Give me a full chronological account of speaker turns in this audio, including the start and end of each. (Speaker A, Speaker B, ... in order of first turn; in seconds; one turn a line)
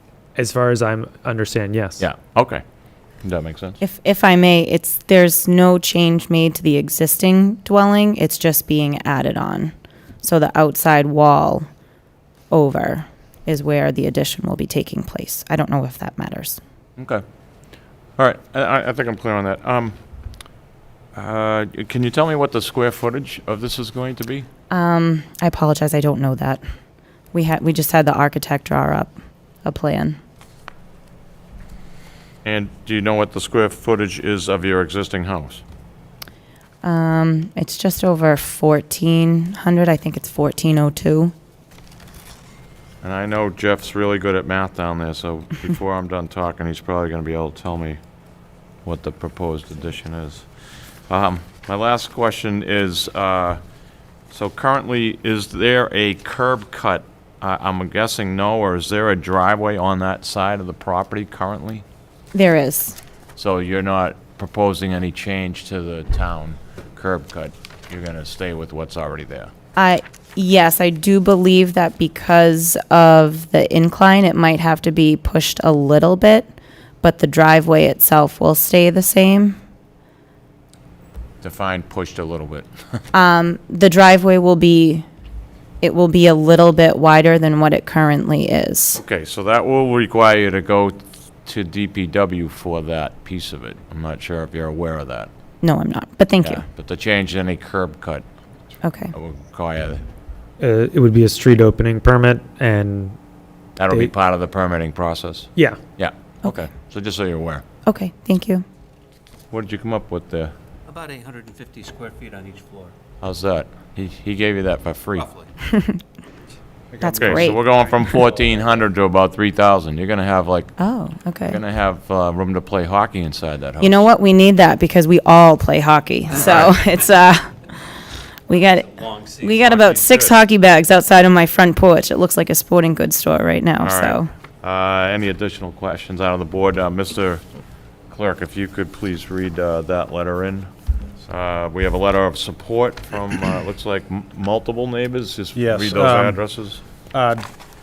Speaker A: 0.3-2.0
Speaker B: 2.0-2.6
Speaker B: 3.2-3.8
Speaker C: 3.8-11.7
Speaker C: 12.5-16.6
Speaker B: 17.0-17.2
Speaker B: 18.2-20.0
Speaker B: 21.1-24.5
Speaker C: 24.7-26.6
Speaker C: 27.3-30.2
Speaker B: 32.4-35.6
Speaker C: 36.8-41.3
Speaker B: 43.0-48.0
Speaker B: 48.8-50.5
Speaker B: 51.1-53.6
Speaker B: 54.3-61.8
Speaker C: 62.3-63.0
Speaker B: 63.4-69.5
Speaker C: 69.8-79.6
Speaker B: 81.4-82.7
Speaker C: 83.1-85.1
Speaker C: 85.8-89.0
Speaker B: 89.0-95.3
Speaker C: 95.6-96.6
Speaker B: 96.4-98.2
Speaker C: 98.8-99.1
Speaker B: 99.1-100.0
Speaker A: 100.6-103.2
Speaker B: 103.8-107.6
Speaker C: 107.8-108.6
Speaker B: 109.5-110.5
Speaker D: 110.9-112.9
Speaker B: 113.2-115.3
Speaker D: 115.1-115.5
Speaker C: 115.7-116.0
Speaker E: 116.9-118.7
Speaker C: 117.0-118.2
Speaker B: 117.2-120.7
Speaker C: 120.8-121.6
Speaker B: 121.5-123.9
Speaker C: 123.8-127.5
Speaker D: 128.5-130.4
Speaker C: 128.5-128.9
Speaker C: 129.4-134.3
Speaker B: 133.8-137.4
Speaker B: 138.1-140.7
Speaker B: 141.2-146.8
Speaker E: 145.6-146.4
Speaker E: 147.1-147.4